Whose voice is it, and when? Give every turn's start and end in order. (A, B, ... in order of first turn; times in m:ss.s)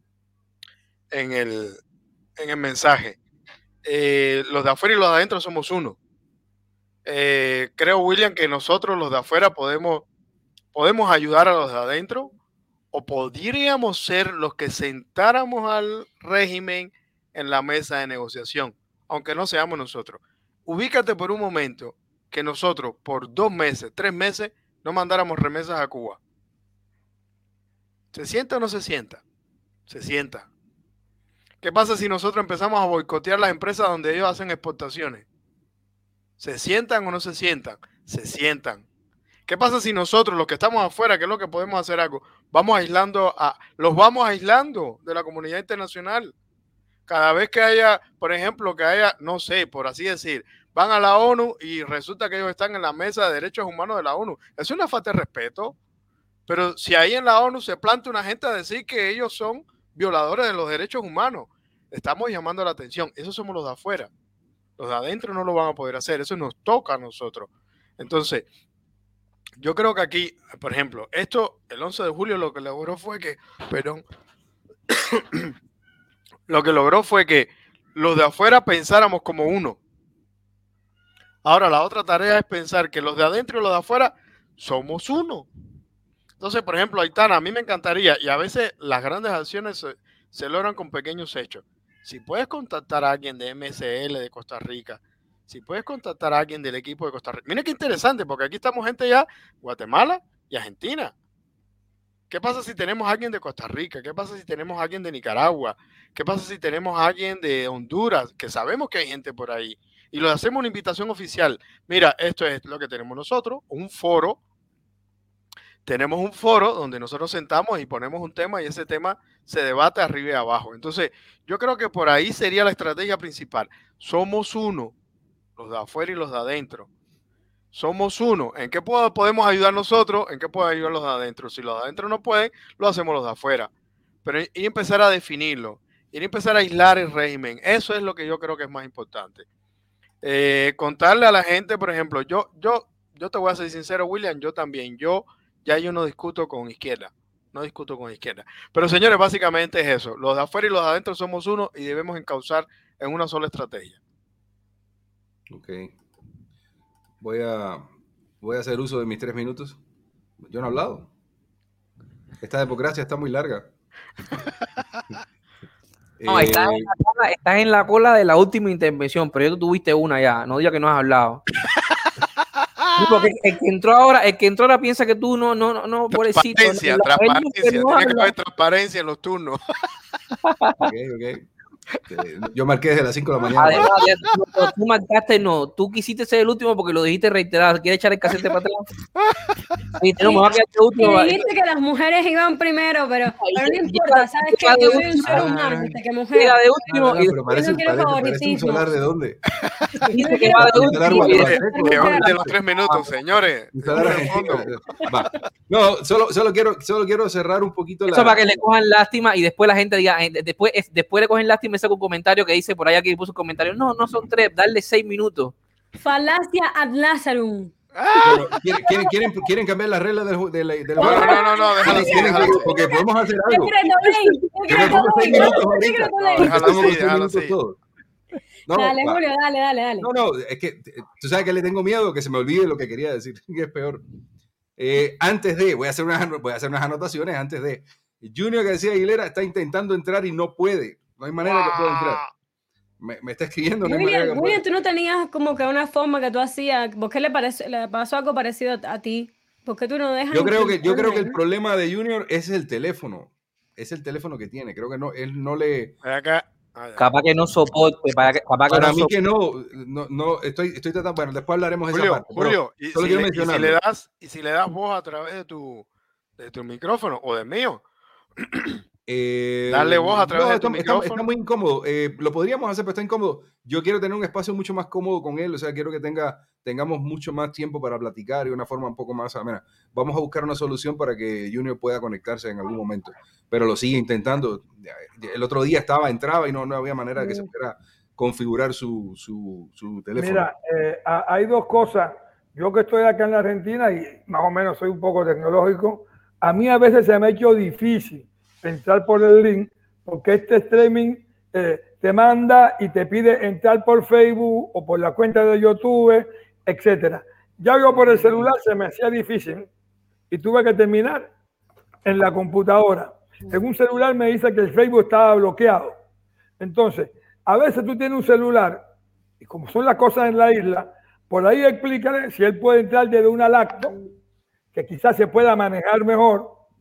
0:01.1-0:01.8 A
0:02.4-0:03.2 A
0:03.8-0:06.0 A
0:07.1-0:10.1 A
0:10.7-0:12.4 A
0:12.9-0:26.2 A
0:28.1-0:29.2 A
0:29.9-0:30.5 A
0:31.6-0:35.3 A
0:36.4-0:38.8 A
0:39.5-0:46.3 A
0:47.1-0:55.8 A
0:56.5-1:04.1 A
1:04.8-1:08.5 A
1:09.6-1:14.0 A
1:15.0-1:15.5 A
1:16.5-1:19.8 A
1:21.4-1:25.5 A
1:26.4-1:41.1 A
1:42.3-1:54.4 A
1:55.8-2:04.9 A
2:05.6-2:06.9 A
2:07.7-2:13.7 A
2:14.2-2:19.5 A
2:20.2-2:34.0 A
2:35.5-2:36.0 B
2:37.2-2:37.8 B
2:38.4-2:39.8 B
2:40.4-2:41.1 B
2:42.4-2:43.7 B
2:46.2-2:46.9 B
2:46.3-2:51.4 C
2:53.0-2:58.3 C
2:56.1-2:59.8 A
3:00.5-3:00.9 C
3:00.9-3:01.5 B
3:02.1-3:03.9 B
3:03.6-3:08.9 C
3:10.0-3:11.5 C
3:10.2-3:16.7 D
3:13.4-3:15.7 C
3:15.2-3:16.0 B
3:16.3-3:17.4 C
3:16.9-3:19.5 B
3:17.3-3:18.9 D
3:20.1-3:23.0 C
3:20.1-3:22.3 D
3:20.5-3:22.6 B
3:21.2-3:25.1 A
3:23.7-3:28.4 B
3:28.1-3:35.6 C
3:36.0-3:37.7 D
3:38.0-3:38.6 A
3:38.2-3:43.8 B
3:41.0-3:42.8 A
3:41.0-3:46.9 D
3:44.7-3:47.8 B
3:46.3-3:47.6 A
3:48.7-3:49.2 B
3:48.7-3:50.1 D
3:50.0-3:54.0 B
3:54.8-4:02.2 B
4:01.4-4:02.3 A
4:03.0-4:04.6 B
4:03.8-4:11.4 D
4:10.3-4:16.0 B
4:16.0-4:17.1 A
4:17.0-4:19.1 C
4:18.7-4:23.8 B
4:21.9-4:25.9 A
4:26.4-4:27.8 A
4:28.4-4:28.8 A
4:29.1-4:50.5 B
4:29.7-4:31.2 A
4:50.2-5:09.7 E
5:10.3-5:11.3 E
5:12.0-5:15.9 E
5:16.6-5:18.9 E
5:19.4-5:24.0 E
5:24.7-5:26.6 E